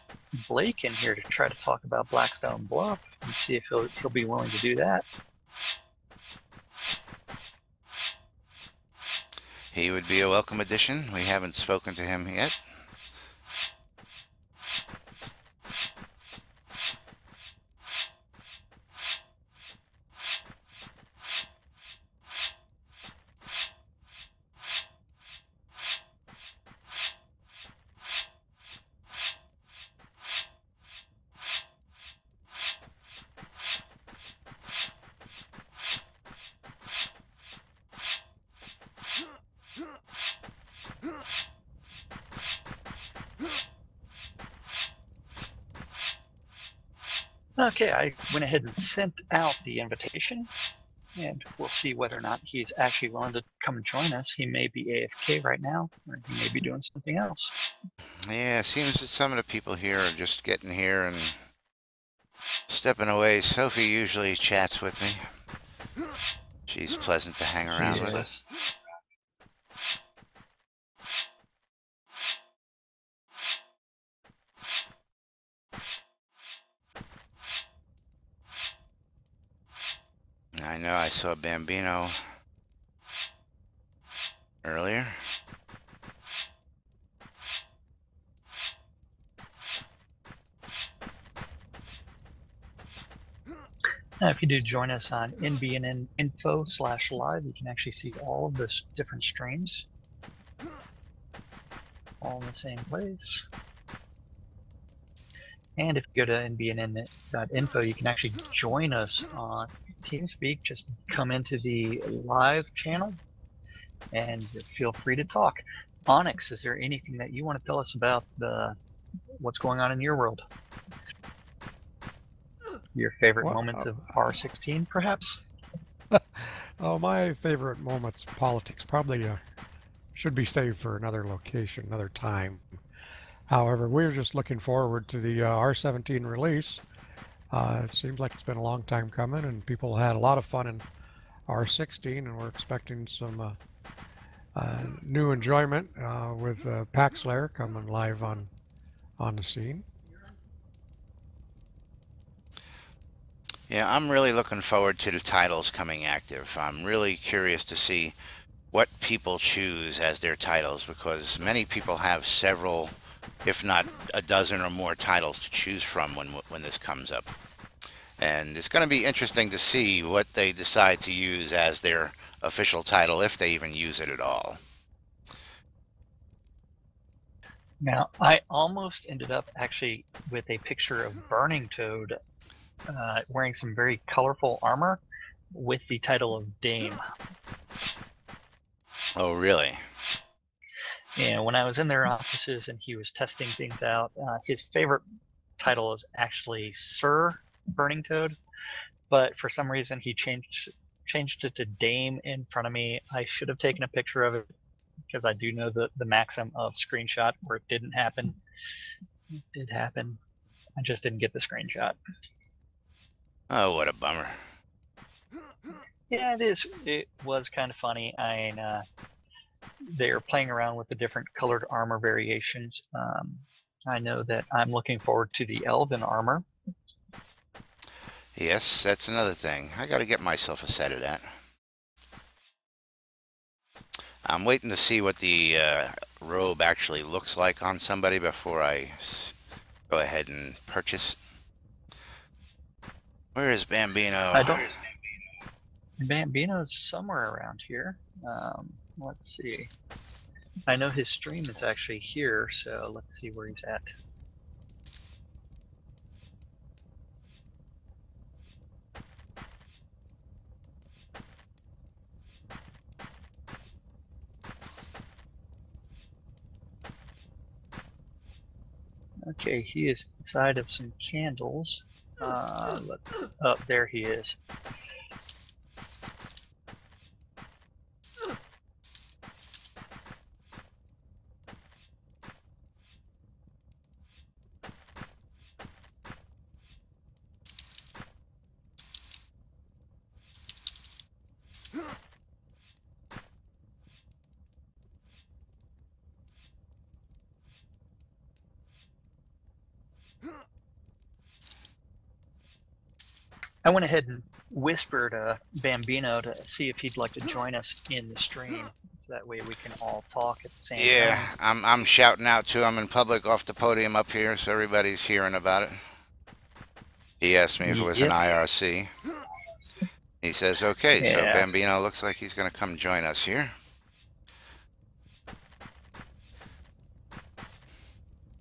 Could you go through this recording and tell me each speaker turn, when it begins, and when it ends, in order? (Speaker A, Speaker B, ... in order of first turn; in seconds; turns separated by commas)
Speaker A: 0.3-5.0, Speaker B: 9.7-12.6, Speaker A: 47.6-50.5, Speaker A: 51.1-57.5, Speaker B: 58.3-61.4, Speaker B: 62.7-65.2, Speaker B: 66.7-68.2, Speaker A: 67.7-68.4, Speaker B: 80.5-82.3, Speaker B: 84.6-85.2, Speaker A: 94.2-99.8, Speaker A: 102.2-103.4, Speaker A: 105.8-113.2, Speaker A: 114.1-118.8, Speaker A: 119.4-120.4, Speaker A: 122.9-125.4, Speaker C: 123.4-124.0, Speaker C: 126.1-129.4, Speaker C: 130.1-132.8, Speaker C: 133.5-136.8, Speaker C: 137.5-140.9, Speaker C: 141.5-143.6, Speaker C: 144.5-148.5, Speaker C: 149.2-149.8, Speaker B: 153.7-158.2, Speaker B: 158.7-167.3, Speaker B: 168.2-174.6, Speaker A: 177.8-182.1, Speaker A: 182.9-185.0, Speaker A: 185.5-187.0, Speaker B: 189.2-189.8, Speaker A: 191.2-195.0, Speaker A: 195.6-198.4, Speaker A: 199.1-204.5, Speaker A: 205.1-208.4, Speaker A: 209.5-210.2, Speaker A: 210.8-212.0, Speaker B: 213.5-214.4, Speaker A: 216.1-218.8, Speaker A: 219.9-226.4, Speaker B: 228.3-231.2, Speaker B: 234.2-239.3, Speaker B: 239.9-241.2, Speaker B: 243.3-244.6, Speaker A: 244.3-244.7, Speaker A: 246.0-249.7, Speaker A: 250.7-253.9, Speaker A: 269.2-274.4, Speaker A: 303.6-311.3, Speaker B: 310.7-315.8, Speaker B: 317.2-318.9, Speaker A: 317.6-318.2, Speaker B: 320.2-323.5, Speaker A: 321.0-321.5